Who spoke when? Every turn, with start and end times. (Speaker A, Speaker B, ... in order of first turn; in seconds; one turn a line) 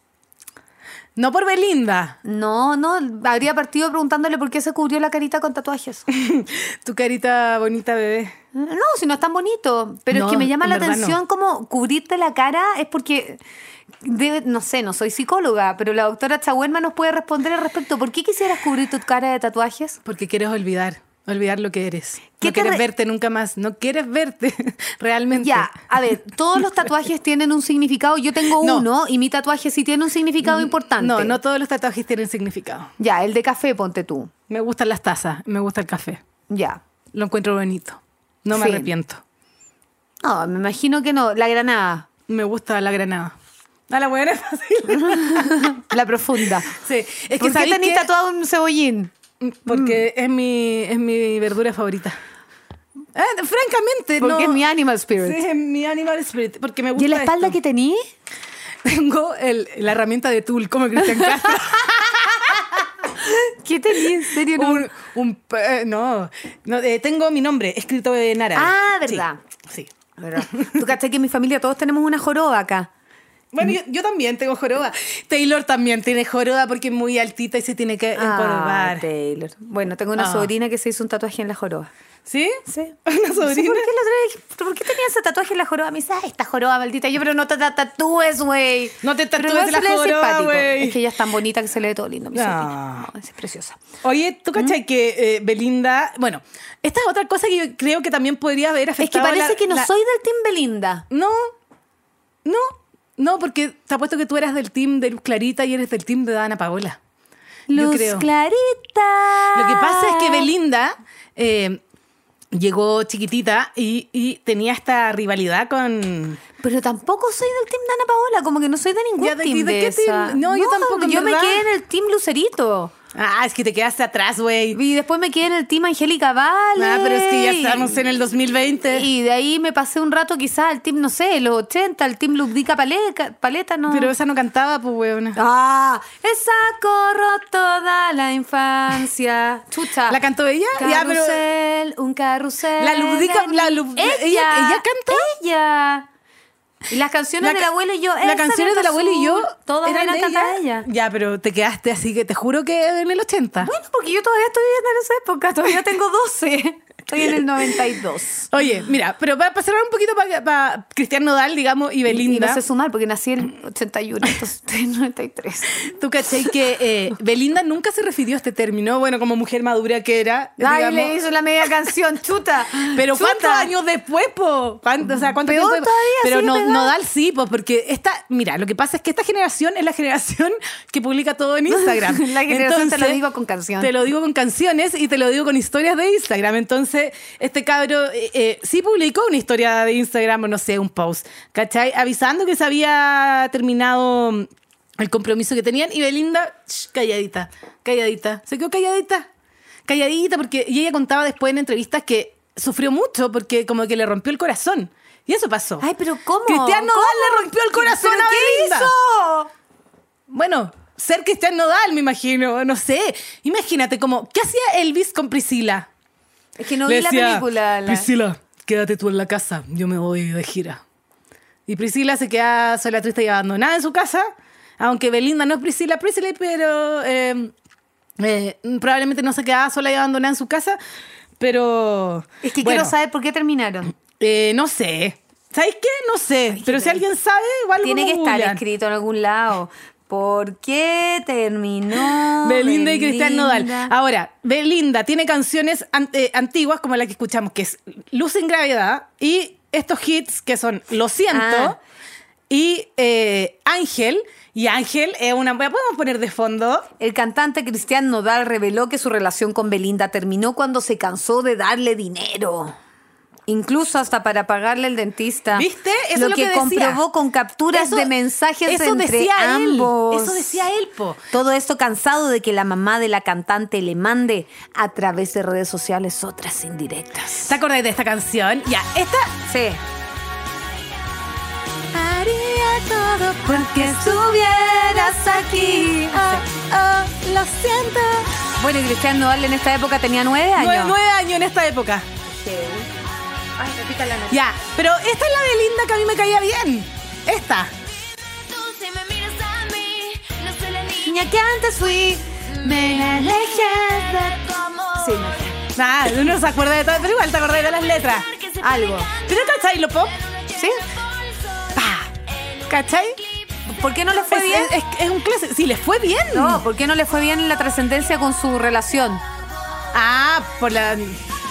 Speaker A: 1.2-2.2
Speaker B: 2.2-6.1
Speaker A: 6.1-8.3
Speaker B: 8.5-13.4
Speaker A: 10.1-11.2
Speaker B: 14.0-20.0
Speaker A: 20.1-25.7
Speaker B: 22.4-22.8
Speaker B: 25.3-31.4
Speaker A: 28.6-28.9
Speaker A: 30.4-32.9
Speaker B: 33.0-34.3
Speaker A: 34.5-36.2
Speaker B: 36.5-36.8
Speaker A: 37.1-39.2
Speaker B: 38.5-38.9
Speaker B: 40.2-42.1
Speaker A: 42.3-43.4
Speaker A: 43.9-45.8
Speaker B: 45.0-46.8
Speaker A: 46.7-48.1
Speaker B: 47.4-49.1
Speaker A: 49.4-52.2
Speaker B: 49.6-50.0
Speaker A: 53.1-54.6
Speaker B: 54.2-55.4
Speaker A: 55.2-57.6
Speaker B: 57.0-58.0
Speaker A: 58.8-62.9
Speaker B: 61.2-61.5
Speaker B: 63.1-64.9
Speaker A: 64.1-70.8
Speaker B: 68.5-69.4
Speaker B: 70.2-72.9
Speaker A: 73.5-79.1
Speaker B: 78.1-81.9
Speaker A: 80.2-80.5
Speaker A: 82.3-83.9
Speaker B: 82.7-93.8
Speaker A: 89.0-91.0
Speaker A: 92.3-93.1
Speaker A: 94.0-99.9
Speaker B: 99.0-101.1
Speaker A: 101.1-101.5
Speaker A: 102.5-107.0
Speaker B: 107.7-110.5
Speaker A: 107.7-108.3
Speaker A: 109.5-111.8
Speaker A: 112.5-116.4
Speaker B: 116.6-122.9
Speaker A: 119.2-121.7
Speaker A: 123.1-124.8
Speaker B: 124.7-128.0
Speaker A: 126.8-129.1
Speaker B: 128.9-134.1
Speaker A: 133.9-135.4
Speaker B: 135.3-140.2
Speaker A: 140.1-141.4
Speaker B: 140.8-146.1
Speaker A: 142.8-145.3
Speaker B: 146.9-150.9
Speaker A: 147.4-147.7
Speaker A: 148.2-153.7
Speaker B: 153.6-158.5
Speaker A: 158.5-162.6
Speaker B: 162.1-165.9
Speaker A: 165.9-171.1
Speaker B: 170.6-173.7
Speaker A: 172.9-183.2
Speaker B: 175.2-176.9
Speaker B: 181.7-183.9
Speaker A: 183.8-199.3
Speaker A: 199.9-205.8
Speaker B: 205.8-209.5
Speaker A: 206.5-208.9
Speaker A: 210.3-215.9
Speaker B: 216.6-218.1
Speaker A: 216.9-220.8
Speaker A: 221.7-227.5
Speaker A: 228.2-230.8
Speaker A: 231.4-232.9
Speaker B: 232.4-233.9
Speaker A: 234.2-238.6
Speaker B: 236.5-237.0
Speaker B: 237.8-243.9
Speaker A: 242.4-251.8
Speaker B: 251.3-251.8
Speaker A: 252.5-256.9
Speaker B: 257.0-262.8
Speaker B: 263.5-270.6
Speaker A: 265.6-267.0
Speaker A: 267.7-268.1
Speaker A: 268.6-271.2
Speaker B: 271.3-277.5
Speaker A: 277.4-279.3
Speaker B: 279.5-279.8
Speaker A: 281.9-288.3
Speaker B: 283.5-286.4
Speaker B: 288.6-291.0
Speaker A: 290.6-292.1
Speaker B: 292.2-292.9
Speaker B: 293.6-294.4
Speaker A: 294.3-297.7
Speaker C: 298.2-301.3
Speaker B: 301.0-304.3
Speaker C: 302.6-305.6
Speaker B: 304.9-305.6
Speaker A: 305.8-308.3
Speaker C: 307.9-309.6
Speaker B: 308.6-309.1
Speaker A: 309.2-310.2
Speaker C: 310.1-311.8
Speaker B: 310.5-310.8
Speaker A: 311.8-312.1
Speaker C: 312.4-313.2
Speaker A: 312.7-313.2
Speaker B: 313.7-314.7
Speaker A: 314.3-316.6
Speaker B: 316.3-319.2
Speaker A: 319.9-321.2